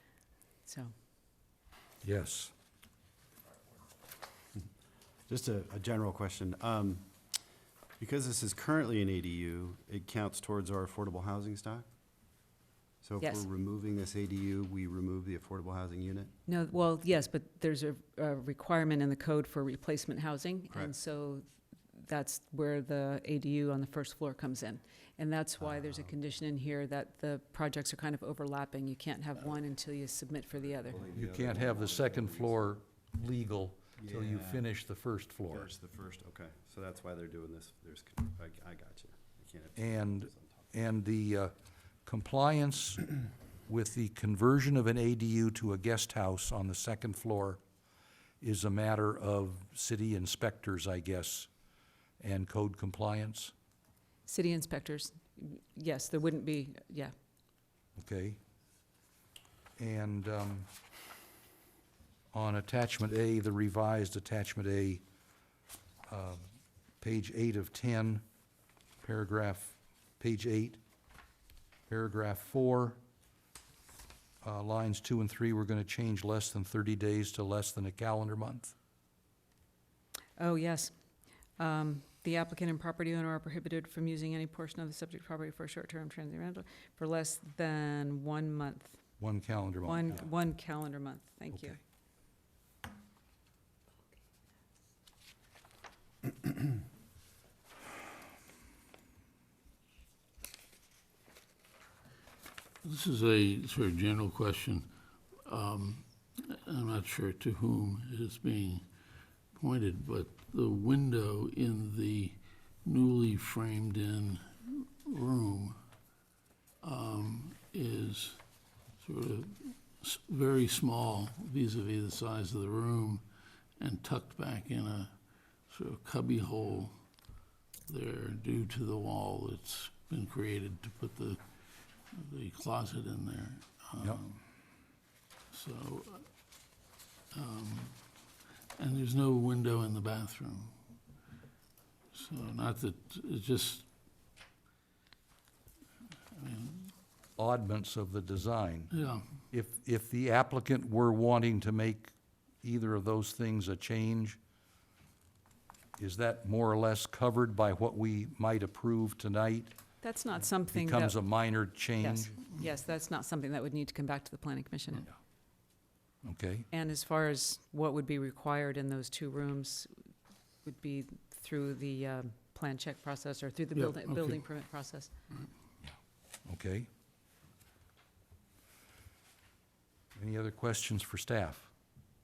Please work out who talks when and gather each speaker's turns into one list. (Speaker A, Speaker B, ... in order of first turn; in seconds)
Speaker A: 0.7-0.9, 16.5-31.1, 54.3-57.1, 80.4-80.9, 81.6-89.0, 89.8-91.8, 160.0-161.2, 162.0-165.1, 166.7-169.9, 170.7-175.1
Speaker B: 2.0-2.5, 31.2-35.7, 39.8-41.5, 42.0-43.1, 43.7-47.6, 48.4-51.5, 52.2-53.5, 58.0-58.4, 59.8-60.7, 62.3-65.0, 66.1-66.4, 67.0-68.2, 69.0-70.8, 71.9-73.0, 74.4-78.7, 89.2-90.2, 147.4-148.9, 149.5-152.1, 152.6-154.4, 156.0-159.7, 160.7-162.3, 166.2-166.7, 175.8-176.9, 180.2-181.7
Speaker C: 5.3-7.1, 8.0-11.9, 13.0-16.3, 25.6-26.1, 30.9-32.6, 34.0-34.6, 35.5-40.6
Speaker D: 102.8-104.9, 105.5-108.8, 109.5-115.8, 116.8-118.4, 119.0-123.2, 123.8-125.1, 125.7-126.9, 127.9-131.4, 132.1-134.4, 135.5-136.3, 137.3-138.0, 138.8-140.8, 142.1-143.9, 146.3-146.9, 148.9-149.3, 173.8-174.4